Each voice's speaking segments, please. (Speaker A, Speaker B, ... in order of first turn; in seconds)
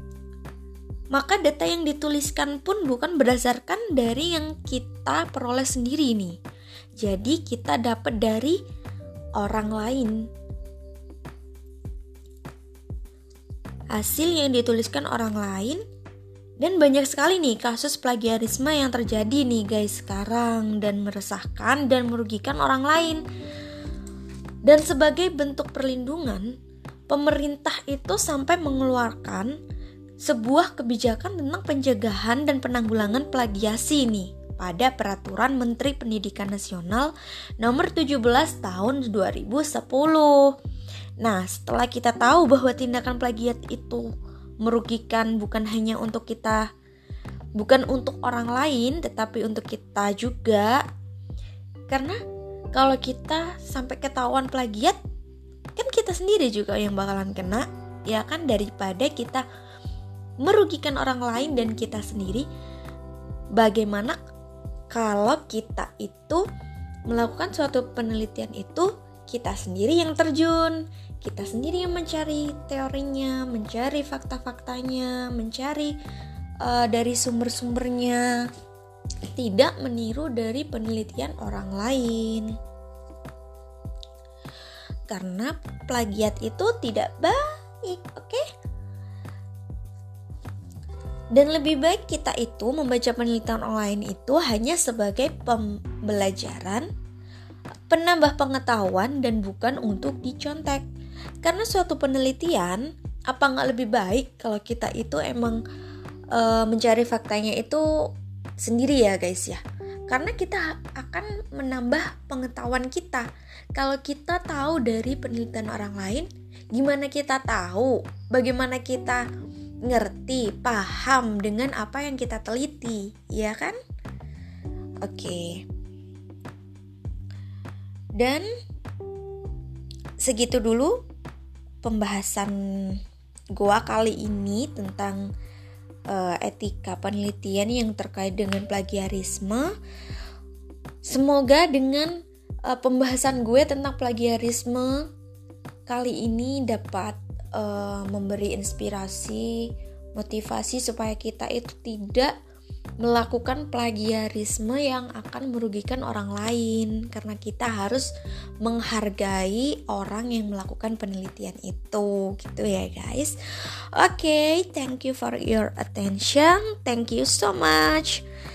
Speaker A: 1.1-6.4, 7.0-8.6, 9.4-10.3, 13.9-15.8, 16.6-23.2, 24.6-26.5, 27.1-29.5, 30.2-40.5, 41.2-44.1, 44.6-46.6, 47.6-50.8, 51.9-52.2, 52.7-55.0, 55.8-59.4, 60.4-62.5, 63.5-64.2, 64.9-66.4, 67.1-75.9, 76.6-78.4, 79.3-82.5, 85.1-88.4, 91.3-96.9, 97.9-100.8, 101.4-105.6, 106.3-107.8, 108.6-119.2, 119.8-123.8, 125.0-125.6, 128.2-128.5, 130.2-130.9, 131.8-133.0, 133.5-135.2, 136.1-139.7, 141.0-145.1, 145.9-152.3, 153.0-158.1, 158.6-163.4, 163.9-168.2